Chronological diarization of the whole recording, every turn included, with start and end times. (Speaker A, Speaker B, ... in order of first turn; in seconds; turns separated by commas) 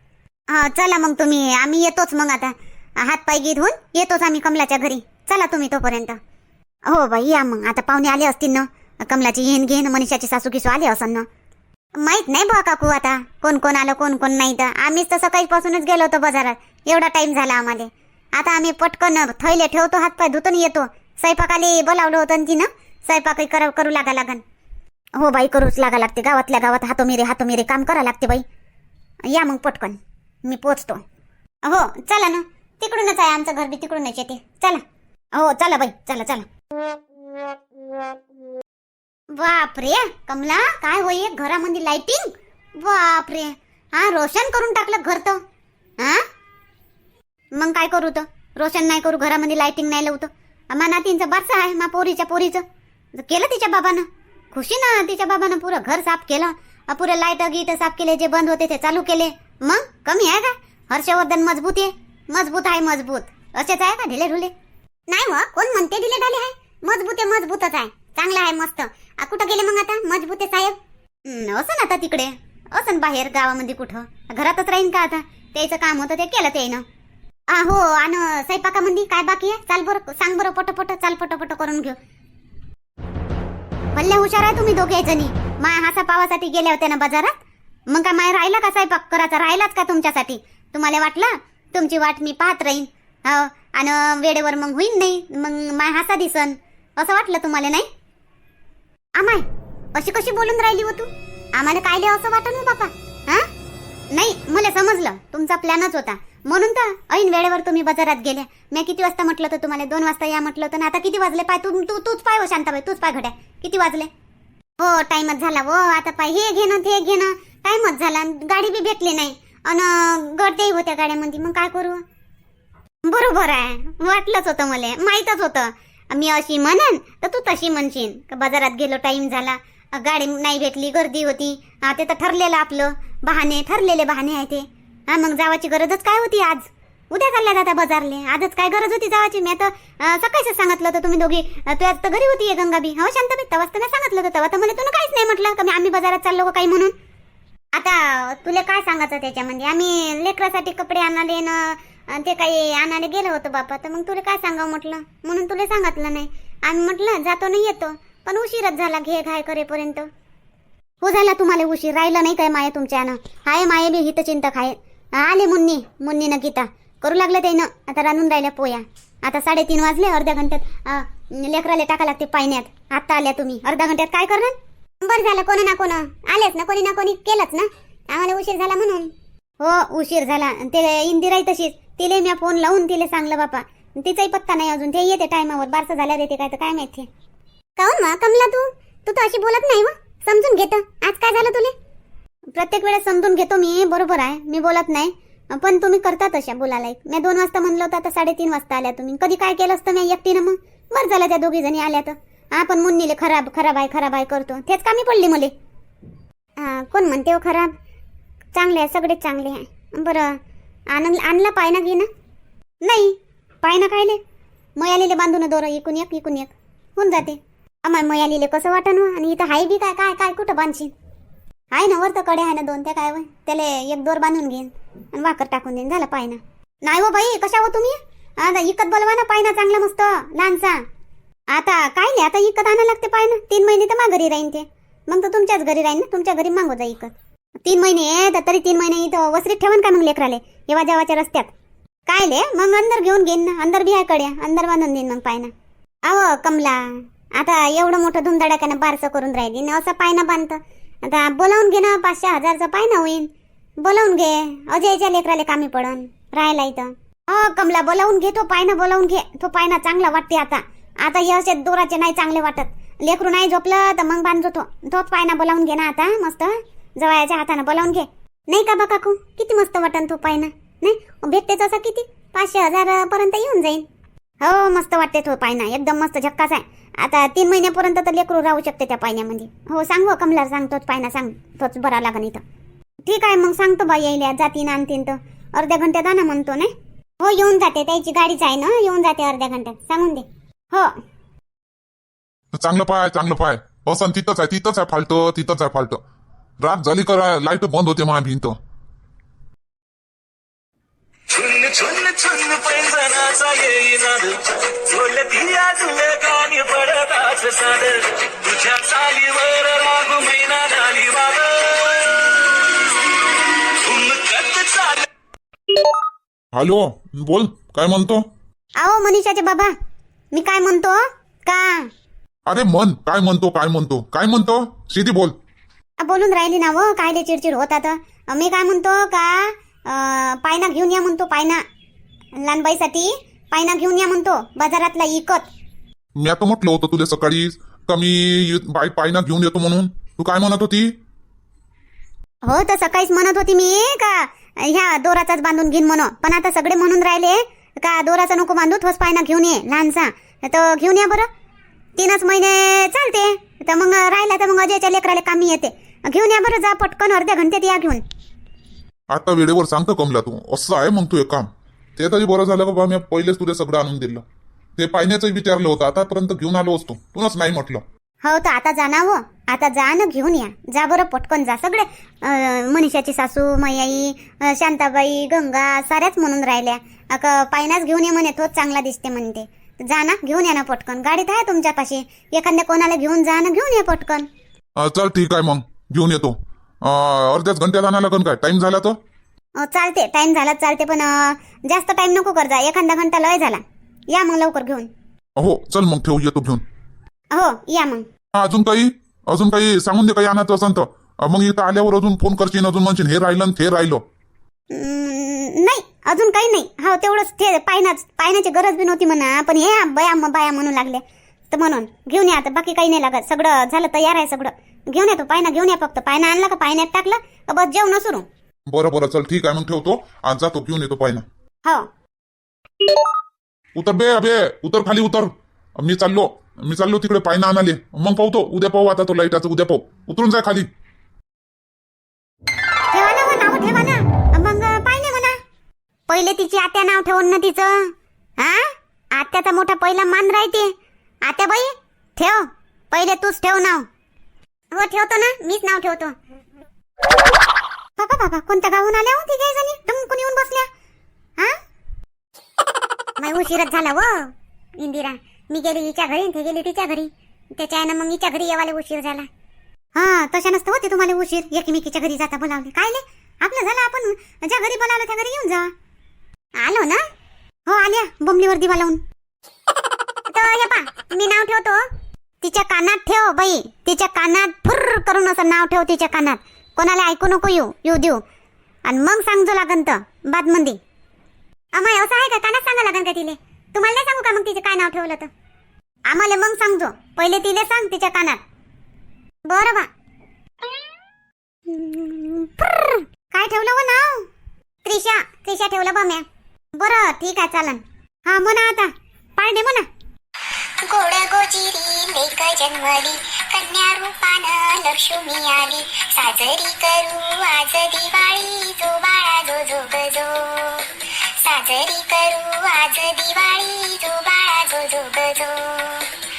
Speaker A: 0.5-6.2, Speaker A: 6.9-11.3, Speaker A: 12.0-24.4, Speaker A: 25.2-28.4, Speaker A: 29.3-31.0, Speaker A: 31.6-34.8, Speaker A: 35.3-36.5, Speaker A: 39.4-45.4, Speaker A: 46.0-46.2, Speaker A: 47.6-52.6, Speaker A: 53.2-64.5, Speaker A: 65.1-76.8, Speaker A: 77.5-82.0, Speaker A: 84.0-87.3, Speaker A: 87.9-97.9, Speaker A: 99.2-103.5, Speaker A: 104.1-114.1, Speaker A: 114.8-122.0, Speaker A: 123.0-146.9, Speaker A: 147.8-160.1, Speaker A: 161.0-187.1, Speaker A: 187.8-191.8, Speaker A: 192.5-205.5, Speaker A: 206.6-207.7, Speaker A: 208.6-210.4, Speaker A: 210.9-212.1, Speaker A: 212.8-214.2, Speaker A: 214.8-220.9, Speaker A: 221.7-230.8, Speaker A: 231.5-237.1, Speaker A: 237.6-241.5, Speaker A: 242.1-245.5, Speaker A: 246.1-253.3, Speaker A: 253.8-273.8, Speaker A: 274.4-282.4, Speaker A: 283.1-291.0, Speaker B: 292.5-296.0, Speaker B: 296.6-298.6, Speaker C: 301.3-312.4, Speaker C: 313.8-315.0, Speaker B: 316.5-318.2, Speaker A: 318.8-319.7, Speaker A: 320.3-321.9, Speaker B: 322.5-325.4, Speaker A: 326.0-331.6, Speaker A: 332.4-335.5, Speaker B: 336.2-340.9, Speaker A: 342.4-351.3, Speaker A: 352.0-358.0, Speaker B: 359.1-364.2, Speaker B: 364.8-367.8, Speaker A: 368.2-384.3, Speaker B: 384.8-389.0, Speaker A: 389.6-394.9, Speaker B: 395.4-396.6, Speaker A: 397.3-398.1, Speaker B: 398.4-404.0, Speaker A: 404.7-418.3, Speaker B: 418.7-421.2, Speaker B: 423.8-430.7, Speaker A: 432.9-435.4, Speaker A: 436.1-443.9, Speaker A: 444.7-446.1, Speaker A: 448.0-450.7, Speaker A: 453.2-459.3, Speaker A: 459.9-465.7, Speaker A: 466.6-467.0, Speaker A: 467.7-469.0, Speaker A: 470.3-471.8, Speaker A: 472.4-478.2, Speaker A: 478.9-480.8, Speaker A: 481.7-485.3, Speaker A: 486.1-488.4, Speaker A: 489.5-489.9, Speaker A: 491.7-494.3, Speaker A: 494.8-496.2, Speaker A: 496.8-499.9, Speaker D: 500.8-510.9, Speaker D: 511.4-516.1